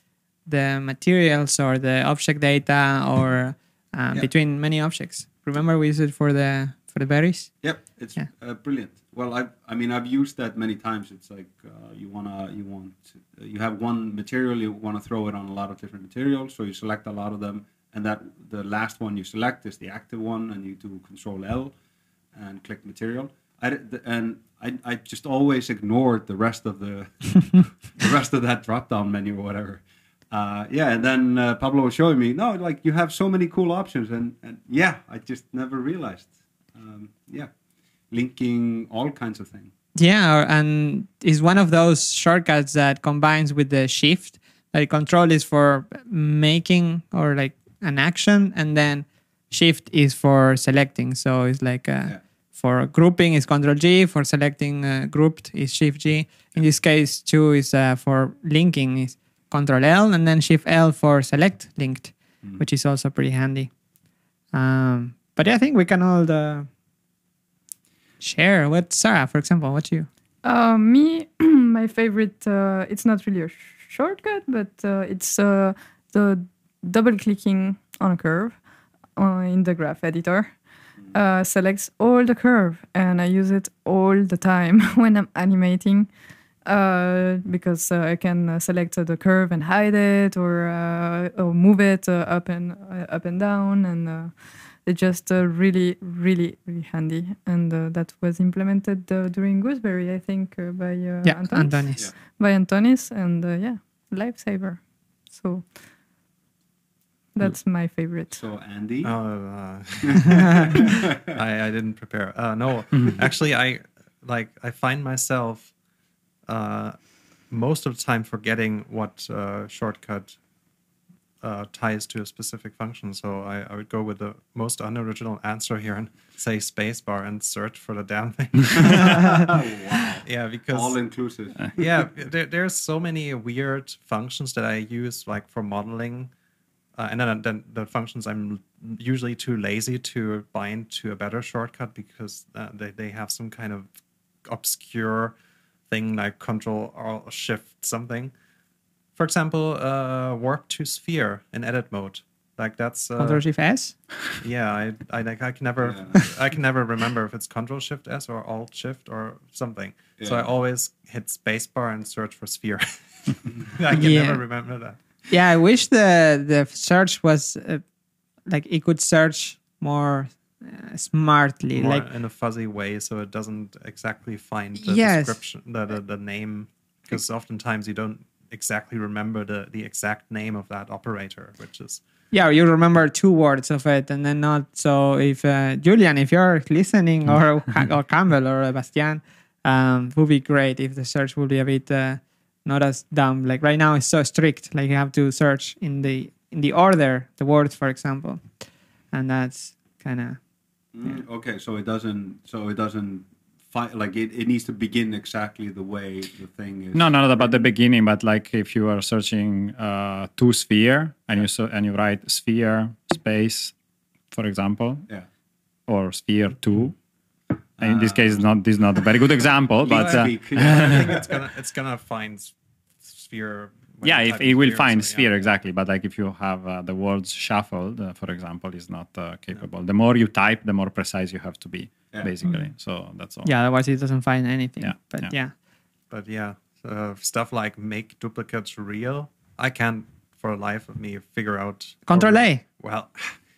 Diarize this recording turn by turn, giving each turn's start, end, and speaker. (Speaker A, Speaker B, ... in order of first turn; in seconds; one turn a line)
Speaker A: 0.5-7.6
Speaker B: 7.6-21.7
Speaker B: 22.3-37.5
Speaker B: 38.1-39.7
Speaker A: 39.9-63.7
Speaker A: 64.5-66.7
Speaker A: 68.2-70.1
Speaker C: 70.4-78.6
Speaker C: 79.2-80.6
Speaker C: 81.1-86.1
Speaker C: 86.6-105.7
Speaker A: 101.2-102.0
Speaker C: 107.3-108.4
Speaker B: 108.3-109.1
Speaker D: 109.0-115.7
Speaker B: 110.1-111.2
Speaker E: 112.9-113.2
Speaker D: 116.5-117.0
Speaker D: 117.5-120.4
Speaker D: 121.4-129.5
Speaker B: 128.7-131.8
Speaker D: 130.2-131.0
Speaker D: 131.7-136.3
Speaker D: 136.9-143.9
Speaker D: 144.4-145.3
Speaker D: 145.9-148.3
Speaker D: 149.2-153.4
Speaker A: 153.2-154.0
Speaker D: 154.3-165.0
Speaker B: 155.8-156.2
Speaker B: 160.2-160.5
Speaker A: 163.9-164.4
Speaker A: 165.3-167.8
Speaker A: 168.5-172.1
Speaker D: 171.7-182.0
Speaker A: 174.8-175.3
Speaker A: 182.3-198.6
Speaker A: 199.1-200.4
Speaker B: 200.9-207.6
Speaker E: 206.9-213.7
Speaker E: 214.3-215.1
Speaker E: 215.9-217.0
Speaker B: 217.8-218.4
Speaker E: 217.8-221.1
Speaker B: 219.8-221.3
Speaker D: 219.9-225.3
Speaker E: 224.0-233.5
Speaker A: 233.4-235.5
Speaker E: 234.8-235.3
Speaker D: 236.1-243.4
Speaker A: 242.1-242.6